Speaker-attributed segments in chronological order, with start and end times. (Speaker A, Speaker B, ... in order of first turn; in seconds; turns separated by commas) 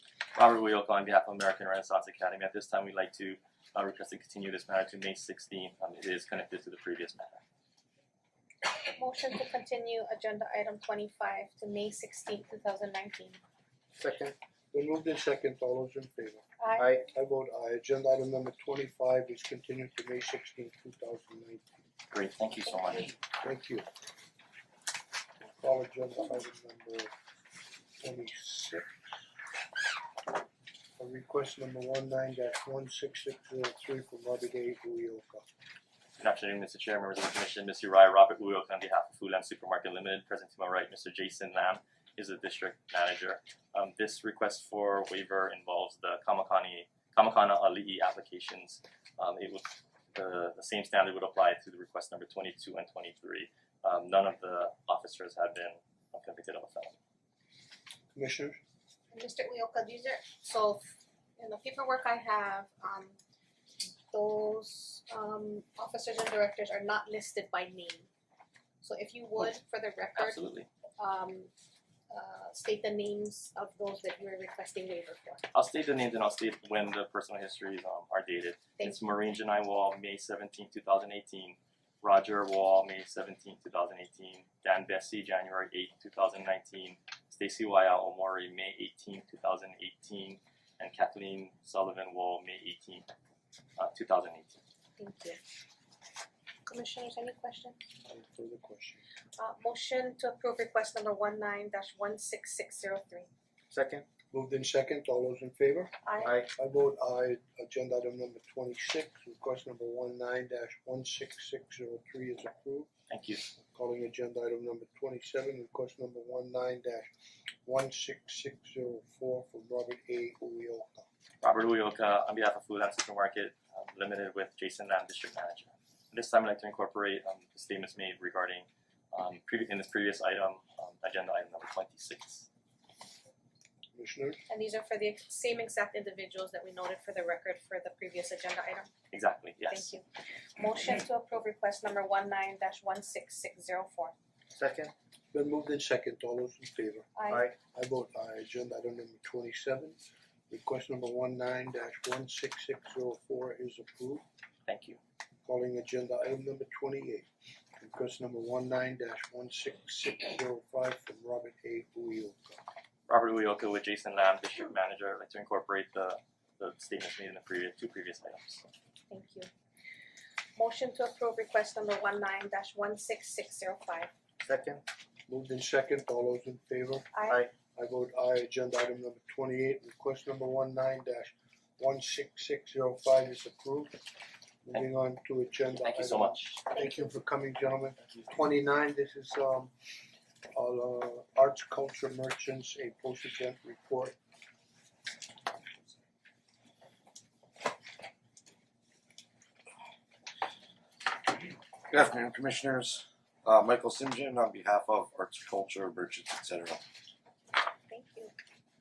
Speaker A: 0.4-7.4, Speaker B: 8.8-13.4, Speaker C: 14.0-14.3, Speaker D: 14.7-16.5, Speaker B: 16.6-16.9, Speaker C: 16.8-17.1, Speaker D: 17.1-21.7, Speaker A: 22.1-23.1, Speaker B: 22.8-23.1, Speaker D: 23.4-23.9, Speaker D: 25.6-27.1, Speaker D: 28.0-28.9, Speaker D: 31.0-35.5, Speaker A: 36.2-57.0, Speaker D: 58.1-58.6, Speaker B: 59.1-60.8, Speaker B: 61.4-63.1, Speaker B: 64.1-68.1, Speaker B: 68.8-70.4, Speaker A: 70.1-70.7, Speaker B: 71.0-71.5, Speaker B: 72.1-75.5, Speaker A: 75.5-93.1, Speaker A: 93.8-94.6, Speaker B: 95.0-95.4, Speaker B: 96.7-97.8, Speaker D: 98.0-99.0, Speaker B: 99.4-103.3, Speaker C: 103.7-104.0, Speaker D: 104.3-105.9, Speaker B: 106.0-106.4, Speaker C: 106.2-106.5, Speaker D: 106.5-112.9, Speaker A: 113.1-113.4, Speaker D: 113.7-117.1, Speaker D: 117.6-121.1, Speaker A: 121.4-132.5, Speaker D: 133.9-134.4, Speaker B: 134.5-138.9, Speaker A: 139.1-139.9, Speaker B: 139.7-140.0, Speaker B: 140.6-144.1, Speaker C: 144.5-144.9, Speaker D: 145.3-147.1, Speaker B: 147.2-147.5, Speaker D: 147.7-150.0, Speaker D: 150.5-154.2, Speaker A: 154.7-155.0, Speaker D: 155.4-157.3, Speaker D: 157.8-162.6, Speaker A: 163.1-168.7, Speaker B: 169.1-169.5, Speaker B: 170.6-174.1, Speaker C: 174.4-174.8, Speaker D: 175.3-177.1, Speaker B: 177.1-177.4, Speaker D: 177.7-184.0, Speaker D: 184.7-189.7, Speaker A: 185.8-186.6, Speaker D: 190.5-194.2, Speaker E: 201.9-206.8, Speaker B: 207.9-208.3